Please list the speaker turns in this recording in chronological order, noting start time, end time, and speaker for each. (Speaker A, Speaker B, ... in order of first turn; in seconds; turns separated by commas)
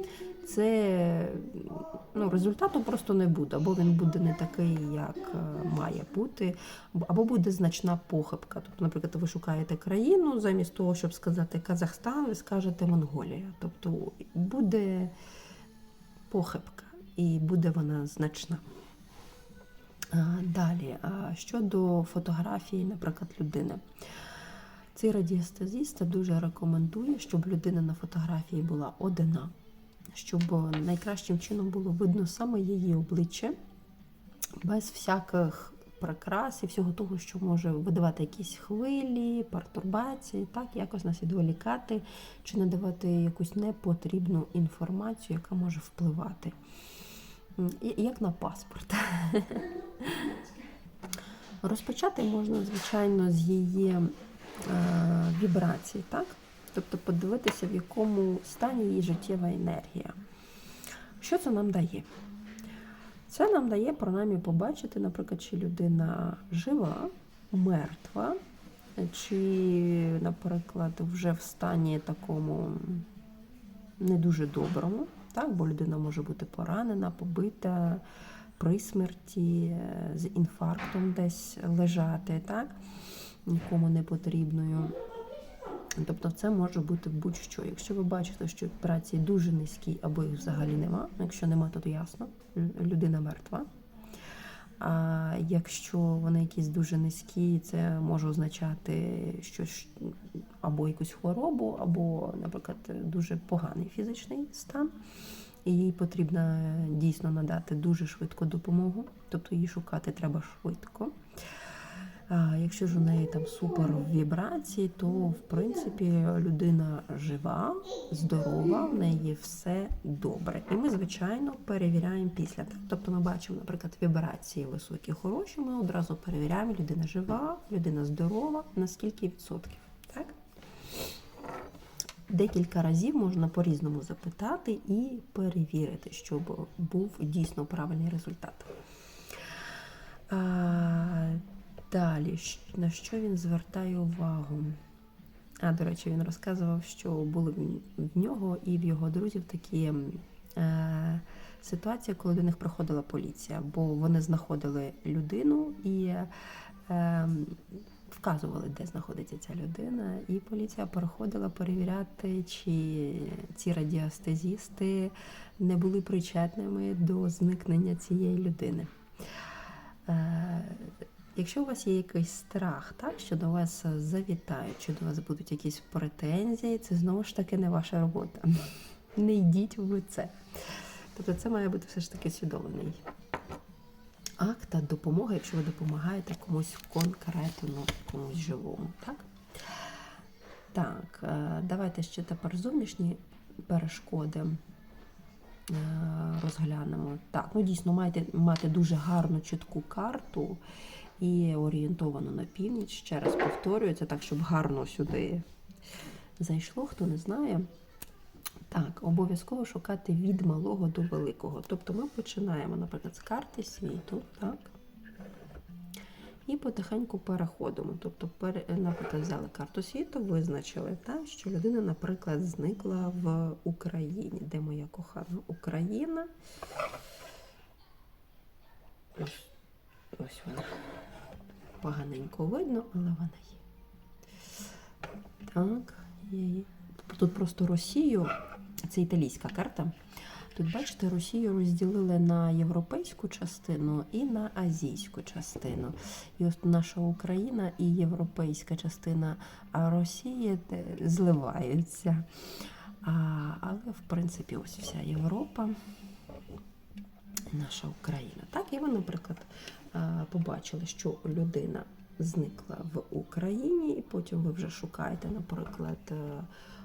Speaker A: 0.4-15.1, Speaker A: 16.3-18.6, Speaker A: 20.1-24.3, Speaker A: 24.9-29.5, Speaker A: 30.1-33.6, Speaker A: 34.6-46.6, Speaker A: 47.6-50.4, Speaker A: 51.6-54.1, Speaker A: 54.6-60.2, Speaker A: 61.2-62.1, Speaker A: 63.3-68.4, Speaker A: 69.0-73.1, Speaker A: 74.0-78.0, Speaker A: 78.6-82.8, Speaker A: 83.3-84.9, Speaker A: 86.0-93.7, Speaker A: 94.8-105.0, Speaker A: 105.6-111.2, Speaker A: 112.3-130.4, Speaker A: 132.3-138.7, Speaker A: 140.3-144.8, Speaker A: 145.6-156.3, Speaker A: 156.9-168.9, Speaker A: 170.1-183.0, Speaker A: 184.4-189.9, Speaker A: 190.7-194.6, Speaker A: 195.7-200.6, Speaker A: 201.2-205.5, Speaker A: 206.4-207.7, Speaker A: 208.7-214.7, Speaker A: 216.5-226.3, Speaker A: 229.2-229.5, Speaker A: 230.1-230.8, Speaker A: 231.8-233.6, Speaker A: 235.5-238.3, Speaker A: 238.8-240.0, Speaker A: 240.5-252.3, Speaker A: 253.0-255.8, Speaker A: 257.5-266.5